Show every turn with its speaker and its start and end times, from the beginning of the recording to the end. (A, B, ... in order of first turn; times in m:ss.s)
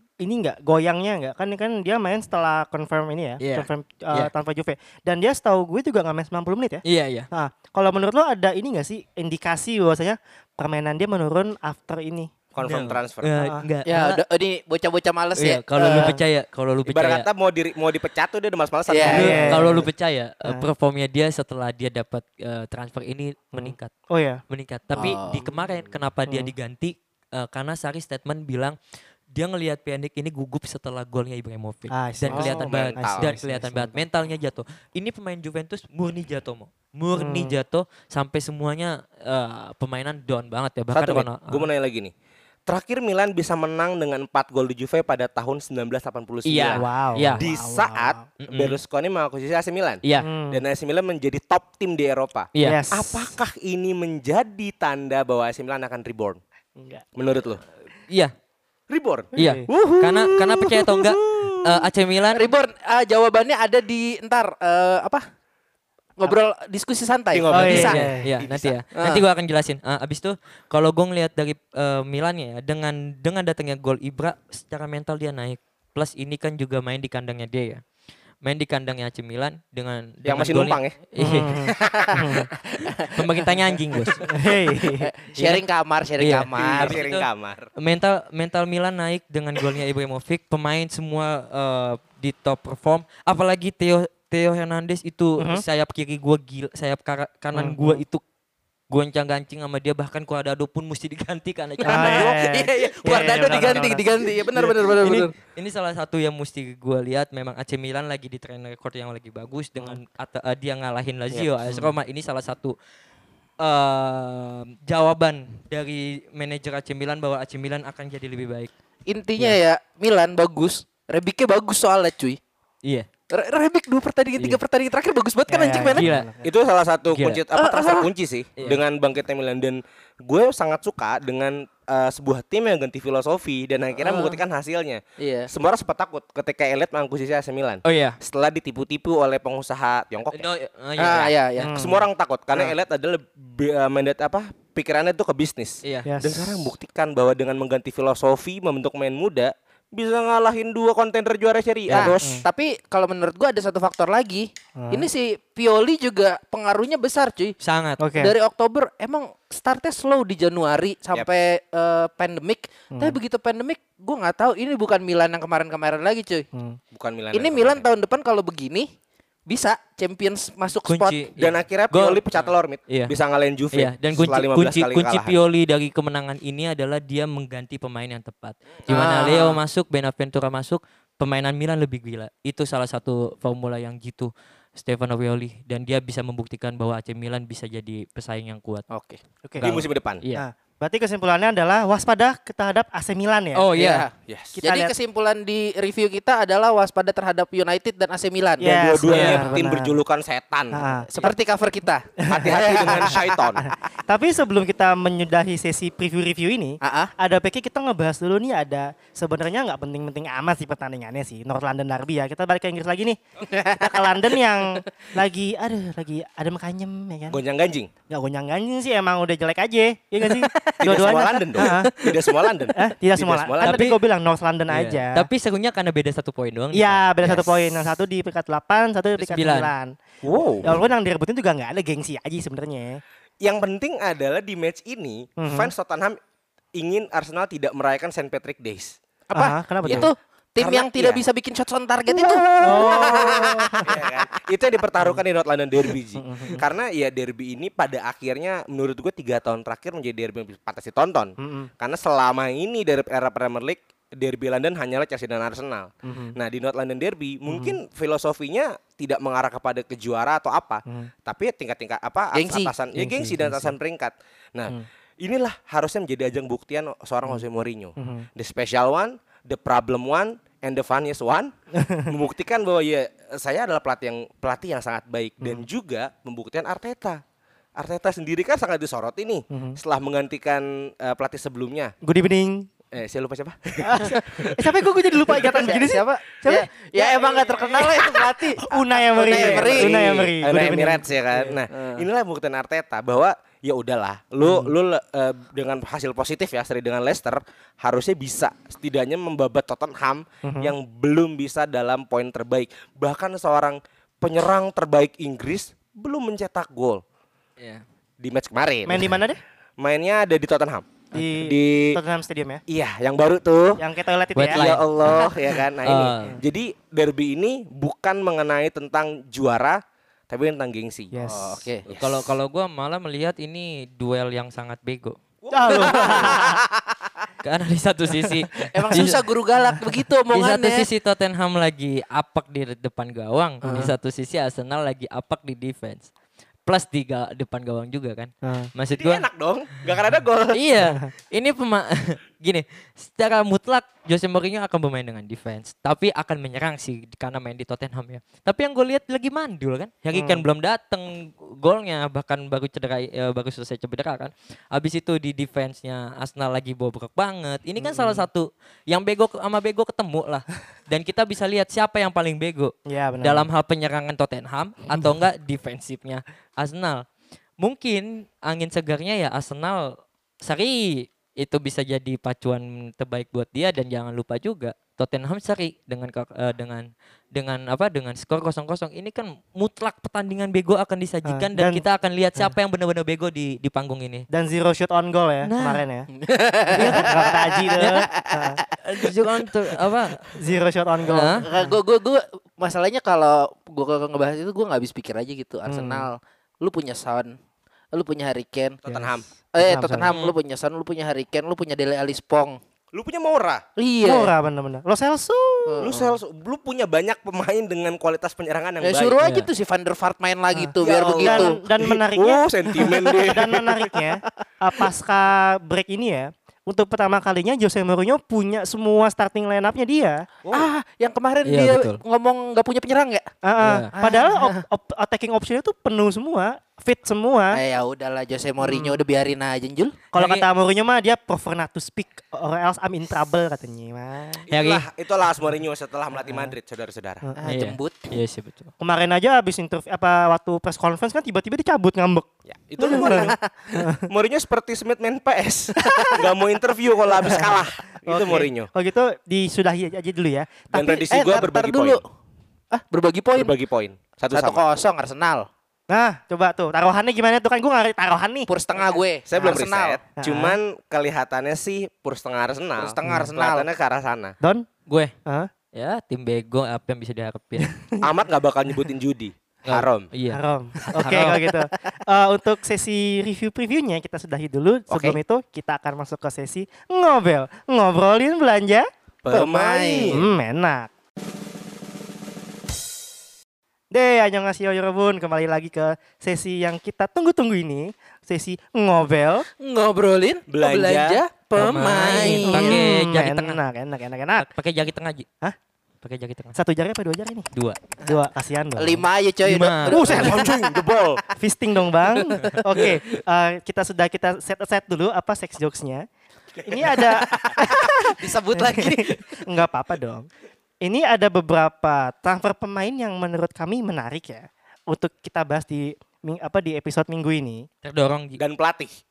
0:00.2-0:12.8 A
0:03.4-0:04.3 B
0:06.8-0:07.3 B
0:12.5-0:13.3 C
0:12.6-0:14.2 B
0:13.4-0:13.6 A
0:13.8-0:16.1 D
0:15.4-0:17.3 B
0:15.8-0:16.2 A
0:16.8-0:19.8 C
0:18.9-0:19.4 D
0:19.0-0:19.9 A
0:19.1-0:23.9 B
0:23.5-0:24.4 A
0:24.5-0:28.8 B
0:25.0-0:25.4 D
0:26.3-0:26.5 A
0:29.3-0:41.7 B
0:31.9-0:34.0 A
0:32.3-0:33.3 C
0:37.1-0:37.5 A
0:40.9-0:42.1 C
0:42.7-0:56.4 C
0:46.4-0:47.5 B
0:46.7-0:48.3 A
0:48.4-0:48.8 B
0:50.0-0:50.3 B
0:50.2-0:50.6 A
0:52.5-0:52.8 B
0:52.6-0:53.3 A
0:56.8-0:57.0 A
0:57.2-0:57.6 C
0:58.9-1:01.9 C
0:59.4-0:59.7 A
0:59.4-1:02.5 B
1:02.3-1:05.2 D
1:06.2-1:08.0 D
1:07.3-1:08.8 C
1:07.5-1:08.2 A
1:07.7-1:17.8 B
1:09.0-1:09.2 D
1:18.4-1:21.6 B
1:20.2-1:21.0 C
1:21.2-1:22.5 A
1:21.8-1:22.2 D
1:22.7-1:23.5 D
1:23.1-1:24.2 B
1:24.1-1:27.0 D
1:24.2-1:25.1 A
1:25.4-1:25.6 B
1:26.2-1:38.2 B
1:26.5-1:27.7 C
1:35.4-1:35.6 A
1:37.5-1:38.0 A
1:38.9-1:42.3 B
1:41.8-1:45.3 D
1:41.8-1:44.2 A
1:43.1-1:43.8 B
1:45.0-1:52.7 B
1:53.6-1:58.7 B
1:59.1-2:02.4 D
2:03.3-2:06.1 D
2:05.5-2:06.5 A
2:05.9-2:06.3 B
2:06.4-2:20.4 C
2:07.1-2:07.4 B
2:07.5-2:08.1 D
2:14.0-2:14.4 D
2:15.2-2:15.5 D
2:17.8-2:18.2 B
2:20.3-2:21.3 B
2:21.0-2:21.8 D
2:21.0-2:32.4 C
2:21.6-2:22.0 A
2:25.8-2:26.1 B
2:26.1-2:26.7 A
2:31.9-2:37.6 D
2:31.9-2:32.4 A
2:34.8-2:35.1 A
2:37.6-2:38.0 B
2:38.0-2:38.3 A
2:38.1-2:46.5 D
2:46.9-2:47.8 C
2:47.3-2:48.9 D
2:49.5-2:51.2 D
2:50.8-2:53.1 B
2:51.4-2:55.4 C
2:53.7-3:08.8 B
2:58.9-2:59.6 D
3:08.9-3:09.2 D
3:09.4-3:09.8 A
3:09.6-3:10.2 C
3:09.6-3:10.4 B
3:10.3-3:13.7 A
3:13.5-3:14.0 B
3:13.8-3:18.7 D
3:14.3-3:14.6 C
3:14.6-3:14.9 A
3:18.6-3:20.0 A
3:18.6-3:21.3 C
3:19.1-3:19.5 B
3:20.7-3:21.1 A
3:21.1-3:23.7 D
3:22.2-3:23.7 C
3:22.3-3:33.2 A
3:26.8-3:27.1 D
3:33.4-3:34.8 D
3:33.8-3:37.4 A
3:37.3-3:37.9 C
3:38.1-3:41.9 A
3:40.2-3:42.5 D
3:40.8-3:43.8 C
3:42.7-3:45.3 A
3:43.6-3:44.0 B
3:44.7-3:47.0 B
3:46.7-3:50.0 A
3:47.2-3:47.7 C
3:49.2-3:49.7 B
3:50.2-3:50.8 C
3:50.6-3:53.0 A
3:53.4-3:56.2 C
3:55.4-3:55.7 A
3:56.7-4:01.2 C
3:59.3-4:00.1 A
3:59.4-4:04.0 D
4:02.1-4:31.5 C
4:02.6-4:03.9 A
4:06.2-4:06.6 A
4:11.4-4:11.7 A
4:16.0-4:16.4 A
4:17.5-4:17.8 A
4:22.3-4:22.7 D
4:22.9-4:23.7 A
4:28.0-4:28.3 A
4:31.8-4:32.1 A
4:32.1-4:37.2 C
4:35.4-4:35.6 A
4:37.8-4:41.9 C
4:39.5-4:39.8 A
4:42.0-4:42.7 A
4:42.9-4:44.7 C
4:43.8-4:51.5 A
4:45.3-4:45.5 C
4:45.3-4:50.7 D
4:47.0-5:07.0 C
4:51.7-4:52.0 D
4:54.4-4:54.7 A
5:00.4-5:00.7 A
5:08.2-5:09.2 C
5:08.9-5:09.4 A
5:09.8-5:12.0 C
5:11.1-5:12.6 A
5:12.7-5:13.8 C
5:13.8-5:14.7 A
5:14.4-5:15.3 B
5:14.5-5:21.1 C
5:15.8-5:16.4 B
5:21.1-5:21.6 A
5:21.2-5:21.8 D
5:21.8-5:22.3 C
5:21.9-5:25.2 B
5:25.4-5:26.6 C
5:25.5-5:26.5 A
5:25.7-5:26.6 D
5:27.4-5:29.2 B
5:28.6-5:30.9 D
5:30.3-5:36.1 B
5:33.6-5:33.9 D
5:36.6-5:39.3 B
5:38.4-5:38.7 A
5:38.9-5:40.6 C
5:40.5-6:07.0 B
5:50.1-5:50.4 A
5:57.8-5:58.2 A
6:02.9-6:03.5 A
6:07.6-6:24.3 B
6:21.3-6:21.8 A
6:24.3-6:26.1 A
6:25.4-6:25.8 B
6:26.1-6:29.1 D
6:26.7-6:28.6 A
6:26.7-6:28.1 B
6:28.8-6:30.3 B
6:30.3-6:31.8 A
6:31.1-6:31.4 B
6:31.4-6:37.3 D
6:35.7-6:36.1 A
6:37.9-6:38.8 D
6:38.8-6:39.3 C
6:38.9-6:40.1 A
6:39.5-6:42.6 D
6:40.1-6:40.3 B
6:42.9-6:43.6 C
6:43.8-6:44.3 D
6:44.0-6:45.9 A
6:45.6-6:46.2 D
6:45.8-6:49.2 C
6:48.8-6:51.6 D
6:49.2-6:49.5 B
6:50.5-7:00.3 A
6:50.8-6:53.9 C
6:52.8-6:53.2 D
7:00.5-7:03.3 D
7:01.4-7:02.0 B
7:03.4-7:07.6 A
7:03.6-7:03.9 B
7:03.9-7:04.6 D
7:07.5-7:10.0 D
7:08.6-7:09.0 A
7:10.1-7:14.5 A
7:10.1-7:10.4 B
7:14.5-7:14.8 B
7:14.5-7:17.2 C
7:16.2-7:16.5 A
7:17.4-7:18.1 D
7:17.4-7:18.7 B
7:18.8-7:22.3 A
7:22.5-7:28.7 C
7:22.8-7:24.1 A
7:22.8-7:23.5 D
7:25.8-7:26.2 A
7:27.2-7:27.5 A
7:28.0-7:31.1 A
7:30.7-7:32.0 C
7:31.1-7:32.0 D
7:32.7-7:33.5 D
7:33.3-7:34.6 C
7:34.3-7:35.5 D
7:35.9-7:38.5 A
7:38.5-7:40.0 D
7:39.2-7:44.4 C
7:40.2-7:40.6 A
7:42.8-7:43.7 D
7:44.4-7:44.6 A
7:44.9-7:45.1 B
7:45.7-7:47.7 B
7:47.6-7:48.1 A
7:48.0-7:50.1 C
7:49.6-7:51.4 B
7:50.3-7:58.9 A
7:54.9-7:55.2 C
7:59.2-8:00.2 C
7:59.3-8:00.2 D
8:00.1-8:00.9 A
8:03.9-8:09.5 A
8:09.6-8:12.8 D
8:10.5-8:11.2 C
8:11.5-8:13.6 B
8:12.1-8:14.5 A
8:14.4-8:15.3 B
8:16.0-8:16.6 B
8:16.6-8:17.5 A
8:17.5-8:17.8 B
8:18.0-8:20.7 D
8:18.0-8:19.0 A
8:19.4-8:20.0 B
8:19.9-8:21.2 C
8:20.1-8:20.3 A
8:21.4-8:26.1 A
8:22.2-8:22.9 D
8:26.6-8:30.3 A
8:27.0-8:29.4 D
8:30.8-8:37.7 A
8:37.8-8:38.4 B
8:38.4-8:39.0 C